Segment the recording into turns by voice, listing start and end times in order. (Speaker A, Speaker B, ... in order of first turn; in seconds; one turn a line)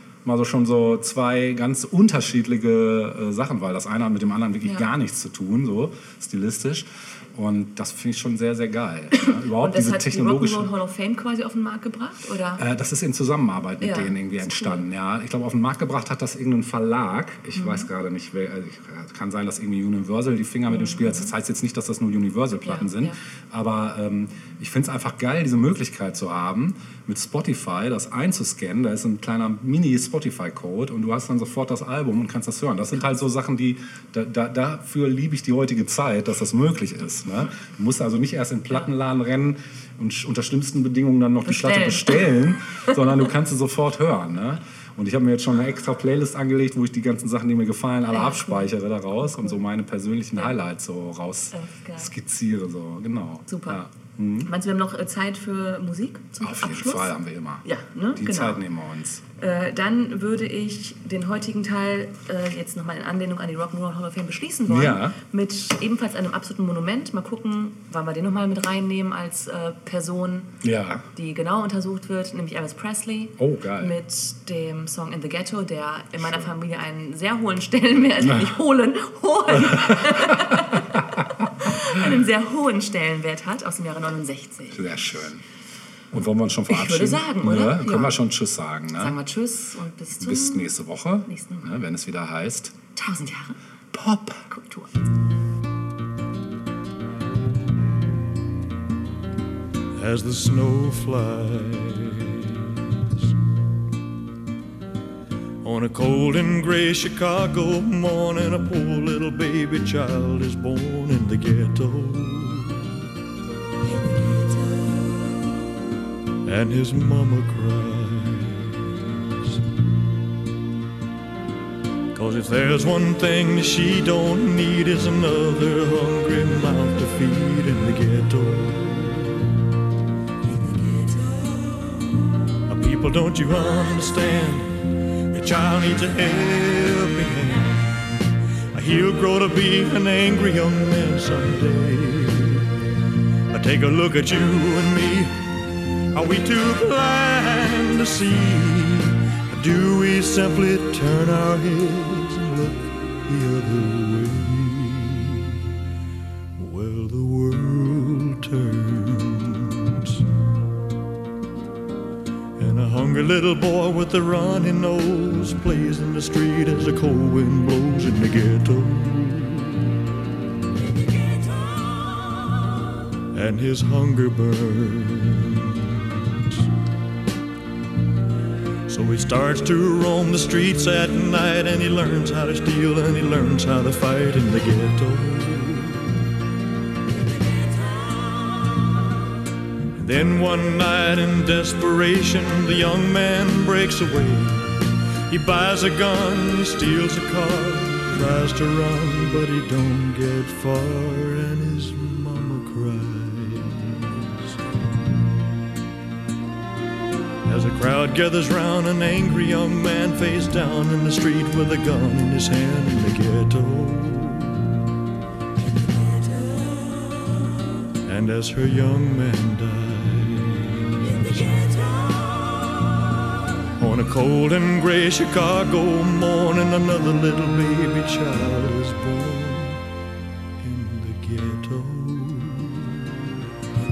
Speaker A: 0.2-10.7
Speaker B: 9.2-12.6
Speaker A: 12.6-54.5
Speaker B: 13.8-14.8
Speaker B: 17.5-17.9
Speaker B: 20.7-21.3
Speaker B: 22.6-23.2
Speaker B: 41.4-42.3
Speaker B: 48.1-49.6
Speaker B: 51.5-52.1
Speaker B: 53.5-53.8
Speaker B: 54.4-58.6
Speaker A: 56.4-59.2
Speaker B: 59.4-70.5
Speaker A: 64.7-65.2
Speaker A: 70.6-71.1
Speaker B: 71.1-84.9
Speaker A: 73.4-73.9
Speaker A: 76.2-76.5
Speaker A: 79.6-81.0
Speaker A: 84.7-85.4
Speaker A: 86.1-89.2
Speaker B: 86.7-88.2
Speaker B: 89.0-90.7
Speaker A: 90.2-92.8
Speaker B: 91.3-91.8
Speaker B: 92.9-93.6
Speaker A: 93.9-94.5
Speaker B: 94.5-94.9
Speaker C: 99.9-102.6
Speaker C: 105.6-112.9
Speaker C: 116.5-118.9
Speaker C: 122.1-129.4
Speaker C: 130.9-131.4
Speaker C: 132.7-138.0
Speaker C: 138.7-142.7
Speaker C: 143.5-145.5
Speaker C: 146.1-155.5
Speaker C: 156.6-160.2
Speaker C: 162.6-169.9
Speaker C: 171.3-172.5
Speaker C: 173.3-175.9
Speaker C: 178.9-186.1
Speaker C: 187.9-188.7
Speaker C: 189.9-204.3
Speaker C: 207.4-214.6
Speaker C: 218.0-222.5
Speaker C: 223.8-229.8
Speaker C: 230.6-233.1